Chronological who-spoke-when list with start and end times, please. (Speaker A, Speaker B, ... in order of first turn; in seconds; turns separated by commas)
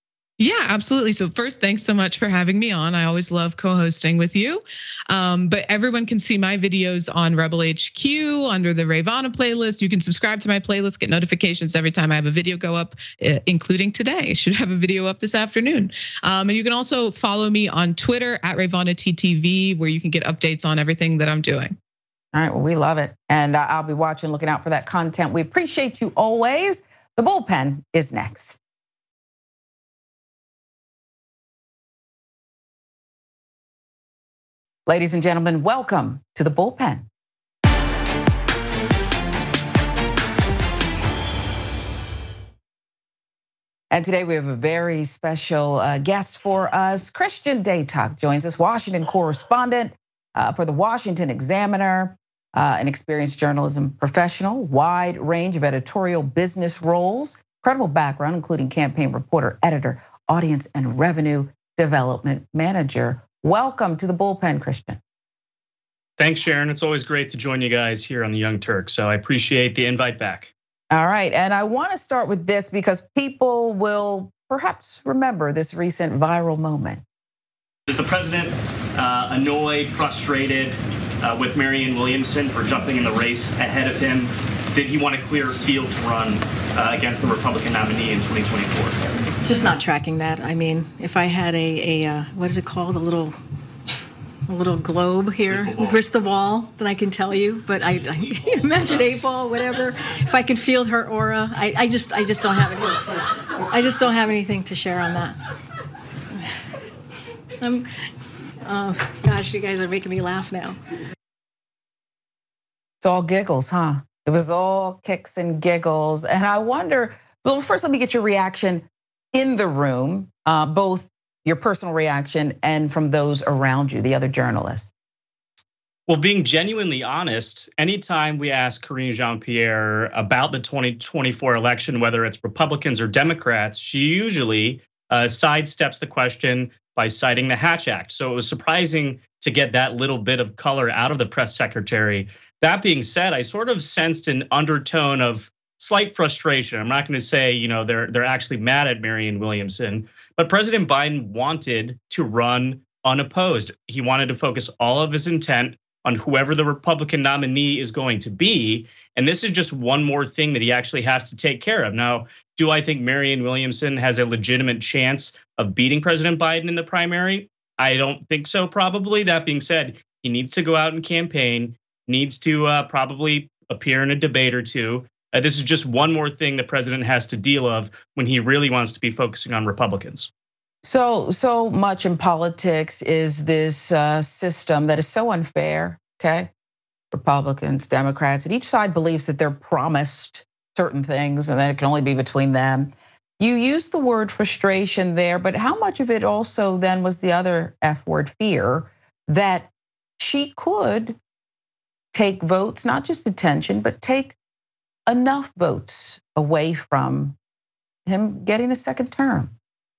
Speaker A: 0.4-21.8, Speaker B: 22.3-28.6, Speaker B: 34.9-37.1, Speaker B: 43.9-65.0, Speaker C: 66.2-70.5, Speaker B: 70.9-77.0, Speaker C: 77.9-89.0, Speaker D: 89.4-93.3, Speaker D: 94.5-105.4, Speaker C: 95.5-95.9, Speaker D: 107.6-107.9, Speaker D: 108.6-110.8, Speaker B: 113.0-124.9, Speaker C: 126.1-180.3, Speaker B: 180.8-186.5, Speaker B: 187.1-201.2, Speaker B: 202.1-204.3, Speaker B: 205.1-207.3, Speaker B: 208.1-209.5